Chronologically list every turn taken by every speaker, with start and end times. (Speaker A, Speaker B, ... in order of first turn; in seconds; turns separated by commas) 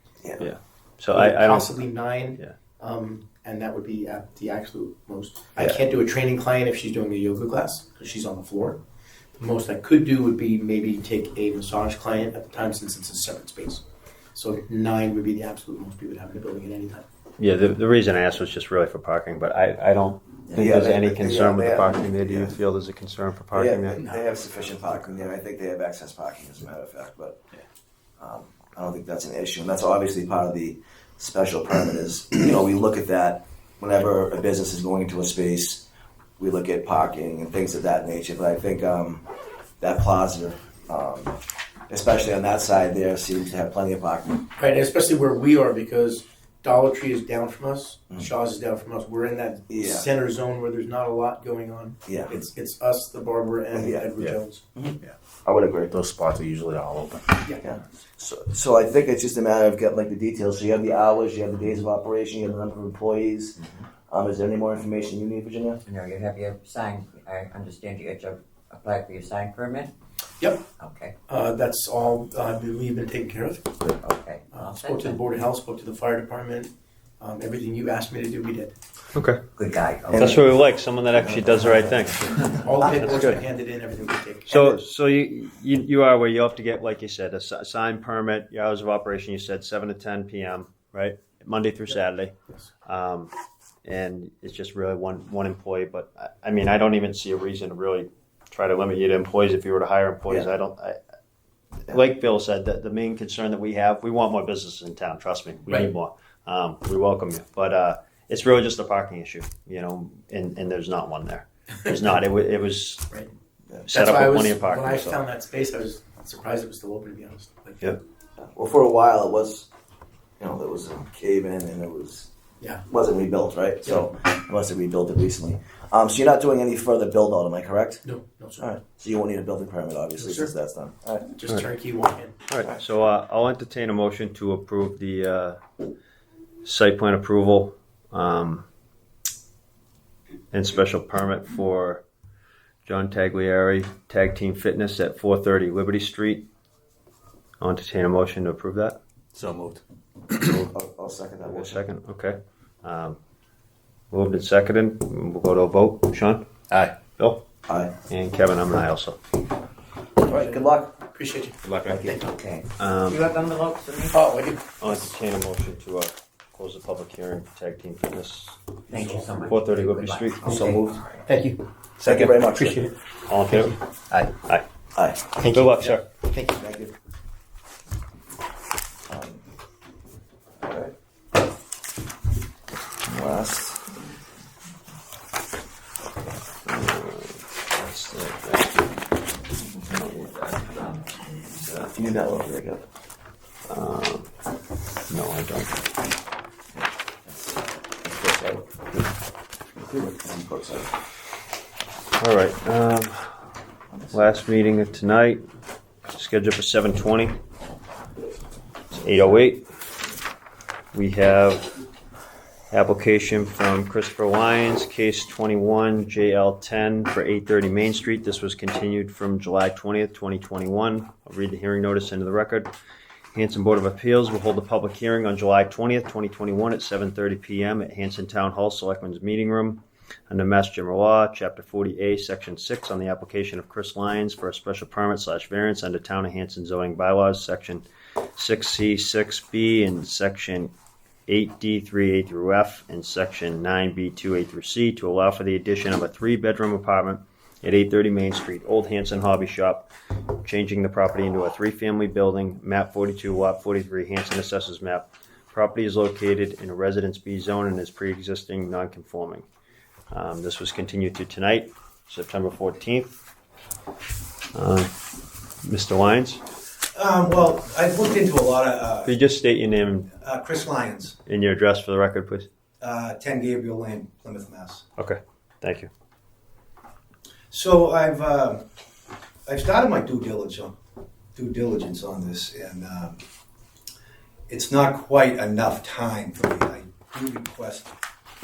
Speaker A: 0.4-2.5, Speaker B: 1.1-8.8, Speaker B: 9.4-13.8, Speaker B: 14.3-17.0, Speaker A: 17.4-24.1, Speaker C: 20.5-22.6, Speaker C: 23.5-27.5, Speaker B: 24.0-25.0, Speaker C: 28.2-35.9, Speaker C: 36.4-39.2, Speaker C: 39.8-41.4, Speaker C: 41.9-44.4, Speaker B: 44.6-54.6, Speaker C: 49.7-50.1, Speaker C: 52.0-52.3, Speaker C: 53.7-54.1, Speaker C: 54.7-55.9, Speaker D: 55.9-57.5, Speaker C: 57.6-65.8, Speaker E: 65.8-69.9, Speaker B: 70.4-70.7, Speaker E: 70.8-71.1, Speaker B: 71.3-73.7, Speaker E: 73.8-75.2, Speaker B: 74.5-78.7, Speaker A: 79.1-79.4, Speaker E: 79.5-80.5, Speaker A: 80.2-83.4, Speaker E: 81.4-82.5, Speaker B: 82.5-84.8, Speaker A: 84.5-93.3, Speaker A: 93.8-101.0, Speaker A: 101.8-113.1, Speaker B: 111.8-112.1, Speaker B: 113.9-117.9, Speaker A: 113.9-115.2, Speaker C: 118.4-119.7, Speaker C: 120.4-122.3, Speaker C: 122.9-128.0, Speaker B: 128.0-128.8, Speaker C: 128.6-131.3, Speaker B: 130.2-130.5, Speaker B: 131.3-132.3, Speaker A: 132.5-135.6, Speaker A: 136.6-138.7, Speaker A: 140.5-142.0, Speaker A: 142.8-146.5, Speaker A: 147.6-149.0, Speaker D: 149.3-150.5, Speaker C: 150.4-151.8, Speaker A: 151.5-153.2, Speaker A: 154.1-157.4, Speaker C: 157.7-157.9, Speaker A: 158.1-159.2, Speaker C: 160.2-161.0, Speaker B: 160.3-162.4, Speaker C: 161.8-162.2, Speaker E: 162.2-164.2, Speaker A: 162.8-163.2, Speaker B: 164.1-165.0, Speaker A: 164.8-168.7, Speaker E: 168.9-171.2, Speaker A: 169.4-170.4, Speaker C: 170.4-171.0, Speaker B: 171.2-172.9, Speaker C: 172.0-172.9, Speaker A: 173.3-174.6, Speaker B: 173.5-173.8, Speaker B: 175.4-176.6, Speaker A: 175.4-176.1, Speaker C: 176.6-176.9, Speaker C: 179.1-179.4, Speaker C: 180.6-180.9, Speaker C: 183.1-183.9, Speaker A: 186.7-188.9, Speaker A: 189.7-191.9, Speaker C: 191.9-192.8, Speaker A: 193.7-194.3, Speaker A: 195.1-195.8, Speaker C: 196.8-198.7, Speaker C: 199.8-200.9, Speaker A: 202.2-203.4, Speaker A: 204.1-205.4, Speaker A: 206.1-207.4, Speaker A: 208.9-209.7, Speaker A: 210.9-211.8, Speaker A: 212.7-222.7, Speaker A: 223.3-237.8, Speaker A: 238.3-240.7, Speaker A: 241.3-259.5, Speaker A: 260.1-263.2, Speaker A: 264.5-264.9, Speaker A: 265.6-266.4, Speaker F: 266.9-269.1, Speaker A: 269.0-270.1, Speaker F: 270.2-271.1, Speaker A: 271.2-272.5, Speaker F: 272.8-274.8, Speaker A: 275.0-275.9, Speaker F: 277.5-278.6, Speaker F: 279.4-280.7, Speaker F: 281.3-283.2, Speaker F: 284.5-287.9